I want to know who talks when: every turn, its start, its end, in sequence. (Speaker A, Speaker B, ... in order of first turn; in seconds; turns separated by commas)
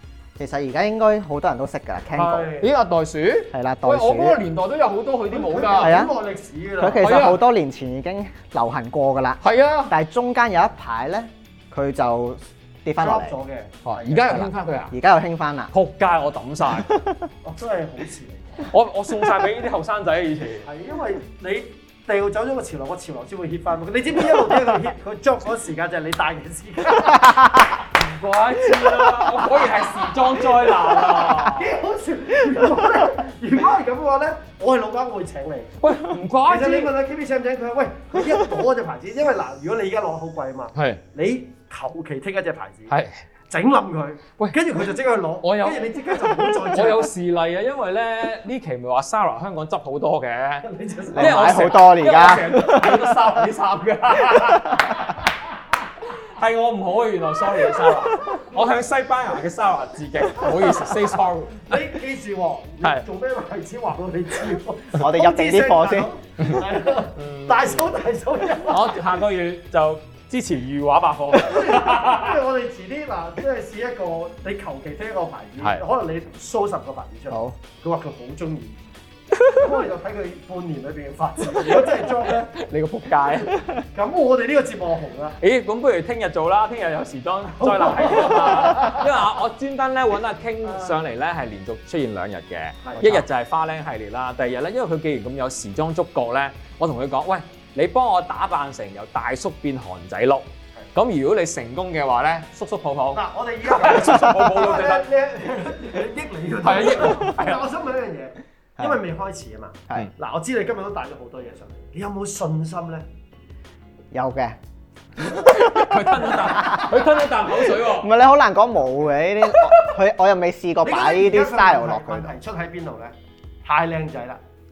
Speaker A: 0.4-2.6, Speaker B: 2.1-2.7, Speaker C: 2.4-6.0, Speaker A: 3.5-4.4, Speaker B: 5.3-7.1, Speaker A: 5.8-6.1, Speaker A: 6.8-13.4, Speaker C: 7.0-7.4, Speaker C: 9.4-9.9, Speaker B: 13.0-14.3, Speaker C: 13.8-14.9, Speaker A: 14.1-15.7, Speaker C: 15.7-16.9, Speaker A: 16.7-17.3, Speaker B: 17.4-18.7, Speaker C: 18.6-20.7, Speaker B: 20.6-27.4, Speaker C: 27.9-31.7, Speaker B: 29.1-30.1, Speaker B: 31.3-35.8, Speaker C: 35.8-36.9, Speaker B: 36.5-42.9, Speaker C: 40.7-41.0, Speaker C: 42.9-43.2, Speaker B: 43.5-47.1, Speaker C: 45.4-55.1, Speaker B: 50.6-51.5, Speaker A: 51.1-53.3, Speaker A: 54.3-55.0, Speaker C: 56.1-61.9, Speaker B: 61.6-69.0, Speaker A: 64.9-66.1, Speaker C: 67.1-67.9, Speaker C: 68.7-72.4, Speaker B: 71.4-78.8, Speaker A: 77.3-77.6, Speaker B: 79.4-82.5, Speaker C: 82.5-83.8, Speaker B: 83.5-85.4, Speaker C: 85.4-105.1, Speaker B: 87.6-89.0, Speaker B: 90.6-91.0, Speaker B: 92.8-93.2, Speaker B: 103.1-113.1, Speaker C: 106.6-107.7, Speaker A: 114.1-114.6, Speaker A: 115.3-117.1, Speaker C: 115.3-118.1, Speaker A: 117.7-122.4, Speaker B: 120.8-124.4